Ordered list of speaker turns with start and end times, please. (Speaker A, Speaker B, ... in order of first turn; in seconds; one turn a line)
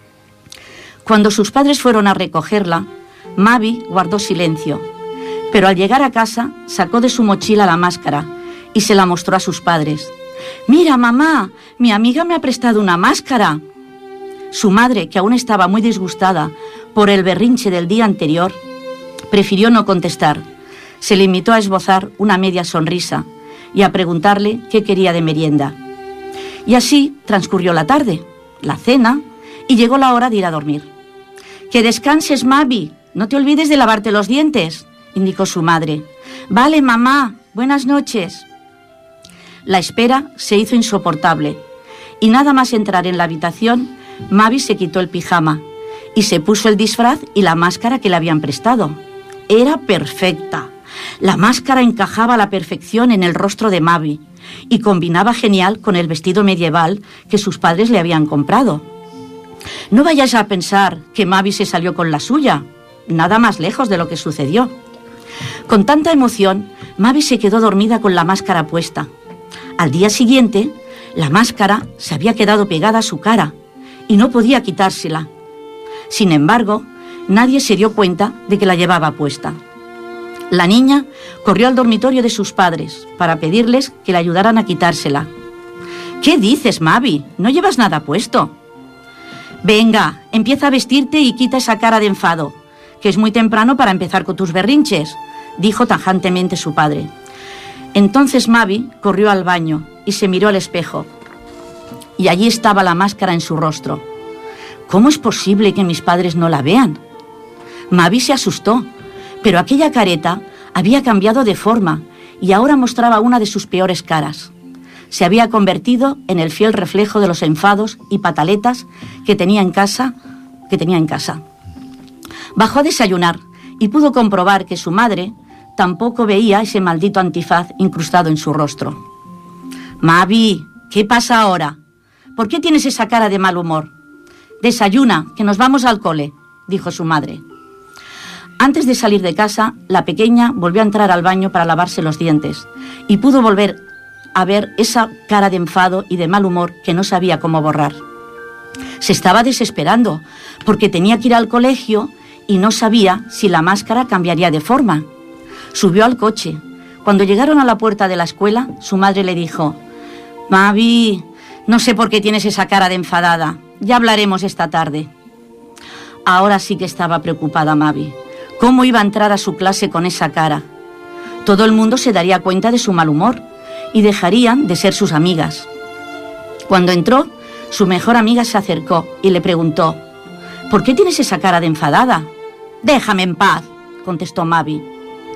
Speaker A: 1.1-4.8
Speaker A: 5.5-10.1
Speaker A: 10.7-13.6
Speaker A: 14.5-18.6
Speaker A: 19.3-20.4
Speaker A: 21.0-25.8
Speaker A: 26.7-30.9
Speaker A: 31.7-38.5
Speaker A: 39.7-41.6
Speaker A: 42.2-45.6
Speaker A: 46.1-49.0
Speaker A: 49.5-50.7
Speaker A: 51.2-58.8
Speaker A: 59.9-64.7
Speaker A: 65.7-69.1
Speaker A: 69.8-73.5
Speaker A: 74.1-75.3
Speaker A: 76.1-79.6
Speaker A: 80.5-85.3
Speaker A: 86.2-88.5
Speaker A: 89.6-97.1
Speaker A: 97.9-101.1
Speaker A: 102.2-104.0
Speaker A: 104.9-107.0
Speaker A: 107.9-108.9
Speaker A: 109.4-114.5
Speaker A: 115.1-120.1
Speaker A: 120.7-121.4
Speaker A: 122.5-129.0
Speaker A: 130.0-131.8
Speaker A: 132.4-133.9
Speaker A: 134.6-137.4
Speaker A: 138.6-143.8
Speaker A: 144.3-148.0
Speaker A: 149.0-155.1
Speaker A: 155.7-159.8
Speaker A: 160.5-165.1
Speaker A: 166.3-170.6
Speaker A: 171.4-173.4
Speaker A: 173.9-175.7
Speaker A: 176.7-180.0
Speaker A: 180.7-182.3
Speaker A: 182.8-184.8